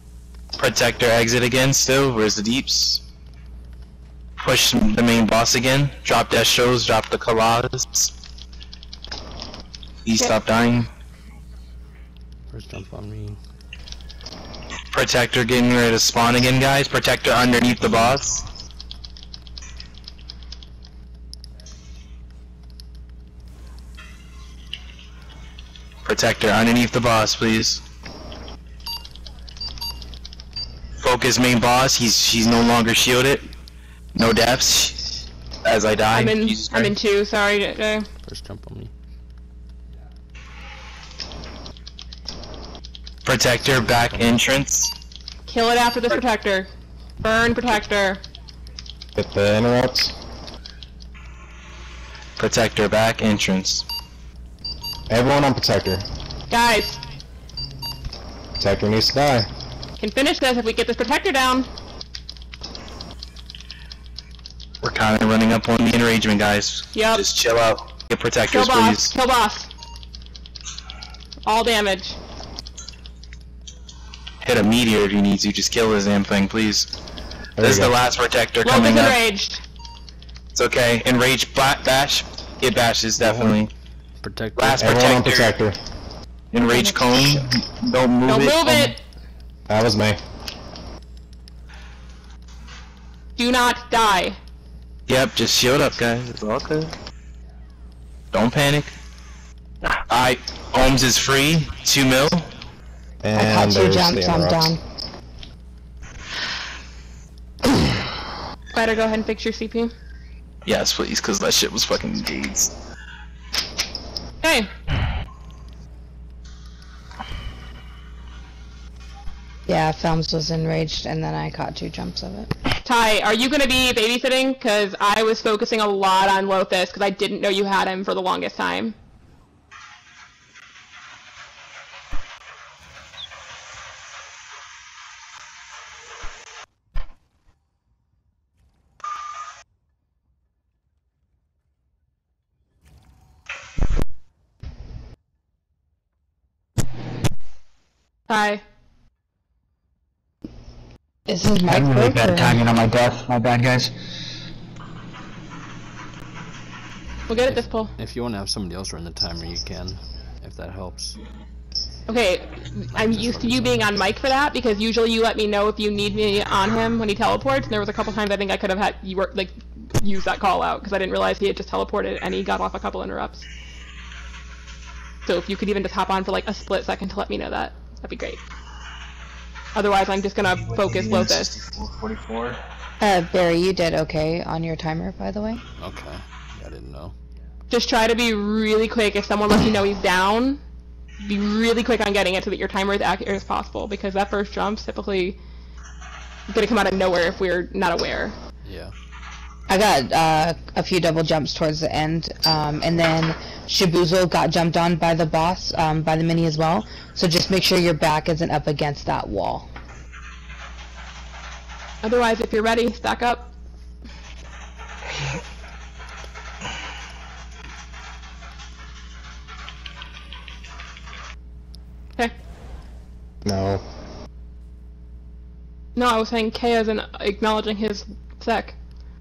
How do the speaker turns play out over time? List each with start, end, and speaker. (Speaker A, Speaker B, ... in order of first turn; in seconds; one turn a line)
Speaker A: 0.6-3.0
Speaker A: 4.4-8.1
Speaker A: 10.0-10.9
Speaker B: 12.5-13.4
Speaker A: 14.9-18.4
Speaker B: 17.8-18.1
Speaker A: 26.0-27.8
Speaker A: 31.0-33.5
Speaker A: 34.1-36.9
Speaker C: 36.1-38.1
Speaker B: 38.2-38.9
Speaker A: 43.2-44.9
Speaker B: 43.8-44.4
Speaker C: 45.5-46.7
Speaker C: 47.2-48.2
Speaker D: 49.1-50.1
Speaker A: 52.4-53.8
Speaker D: 55.1-56.0
Speaker C: 56.5-57.0
Speaker D: 58.6-59.5
Speaker C: 60.0-61.7
Speaker A: 64.8-69.1
Speaker C: 66.9-67.2
Speaker C: 68.5-69.7
Speaker C: 71.5-72.2
Speaker A: 74.4-76.9
Speaker D: 77.6-78.0
Speaker A: 77.6-79.2
Speaker C: 78.6-79.6
Speaker A: 80.5-83.7
Speaker D: 83.2-83.5
Speaker B: 84.2-84.9
Speaker A: 84.6-85.5
Speaker D: 84.8-85.8
Speaker A: 86.5-88.9
Speaker C: 86.7-87.4
Speaker C: 88.3-89.0
Speaker D: 89.7-90.2
Speaker C: 93.4-94.4
Speaker A: 95.1-96.9
Speaker A: 98.3-98.9
Speaker A: 100.1-102.5
Speaker D: 103.2-104.8
Speaker E: 103.3-104.8
Speaker C: 108.7-109.9
Speaker A: 110.7-112.7
Speaker C: 114.4-114.7
Speaker E: 119.7-122.5
Speaker C: 122.8-128.9
Speaker C: 148.3-148.6
Speaker E: 151.3-152.6
Speaker F: 151.6-153.9
Speaker C: 157.3-157.9
Speaker B: 157.5-161.2
Speaker C: 162.1-173.4
Speaker B: 162.9-164.1
Speaker C: 175.2-178.4
Speaker C: 179.7-181.5
Speaker A: 180.5-182.6
Speaker E: 183.0-185.6
Speaker B: 185.8-187.1
Speaker C: 187.7-190.6
Speaker C: 191.2-195.4
Speaker C: 196.5-198.3
Speaker B: 198.6-198.9
Speaker E: 199.7-209.7
Speaker C: 212.0-213.5
Speaker D: 223.4-223.8
Speaker C: 225.9-228.8